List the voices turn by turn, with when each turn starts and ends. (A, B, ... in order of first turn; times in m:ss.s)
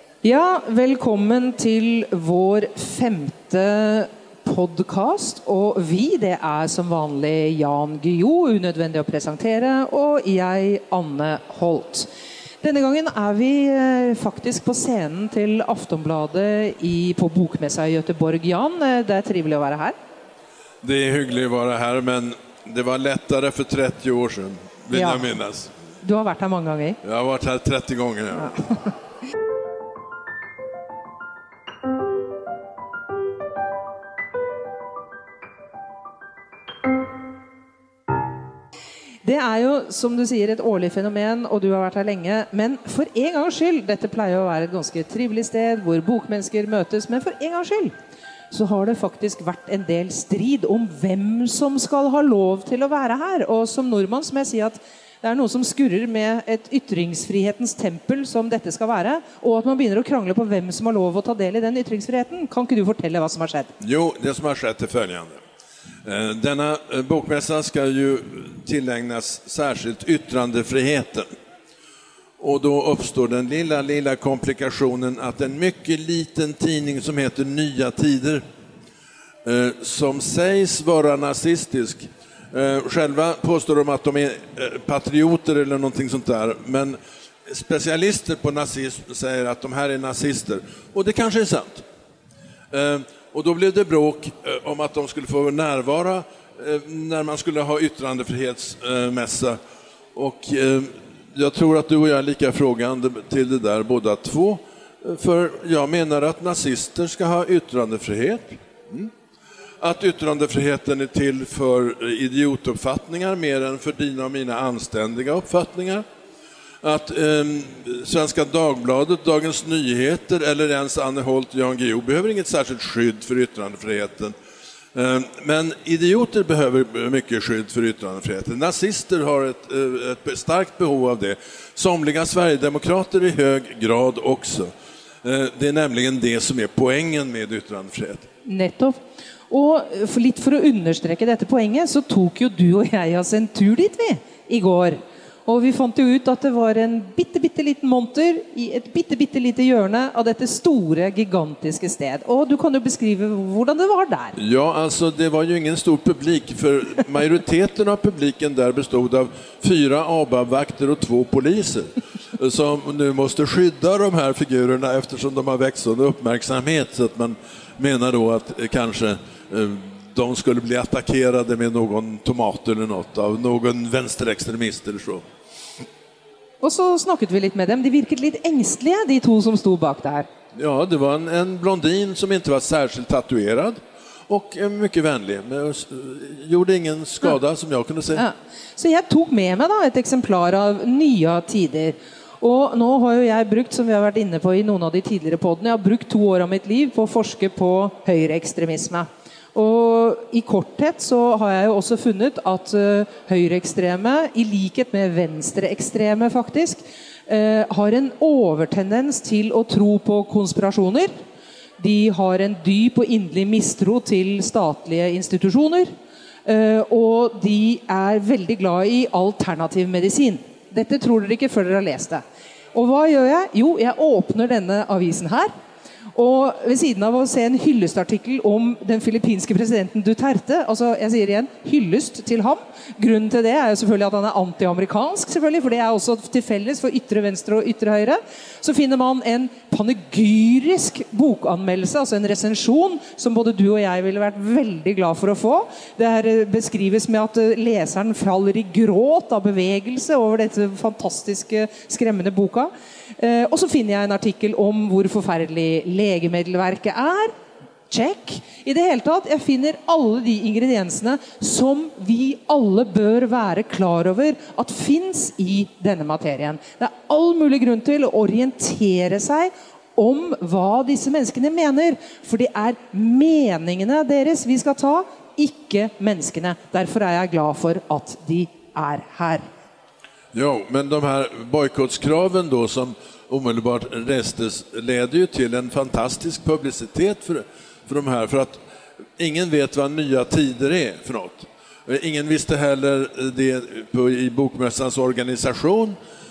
0:00.2-0:12.1 A
0:12.6-0:20.0 A
0:20.8-0:25.7 B
0:24.9-0:25.3 A
0:26.0-0:27.0 A
0:27.0-0:28.6 B
0:39.2-0:47.9 A
0:48.5-1:03.7 A
1:03.8-1:05.4 B
1:06.0-1:11.3 B
1:12.4-1:18.4 B
1:19.4-1:31.8 B
1:32.7-1:39.6 B
1:40.2-1:49.1 B
1:49.8-1:56.0 B
1:56.8-2:04.4 B
2:04.9-2:14.7 B
2:15.2-2:18.3 B
2:18.5-2:19.0 A
2:19.5-2:34.4 A
2:34.4-2:55.2 B
2:56.6-3:00.3 A
3:00.6-3:08.2 B
3:08.2-3:31.1 A
3:31.8-3:35.9 A
3:36.5-3:42.2 A
3:42.7-3:45.5 A
3:46.2-4:17.3 A
4:17.9-4:39.4 A
4:40.3-4:48.6 B
4:49.2-4:56.0 B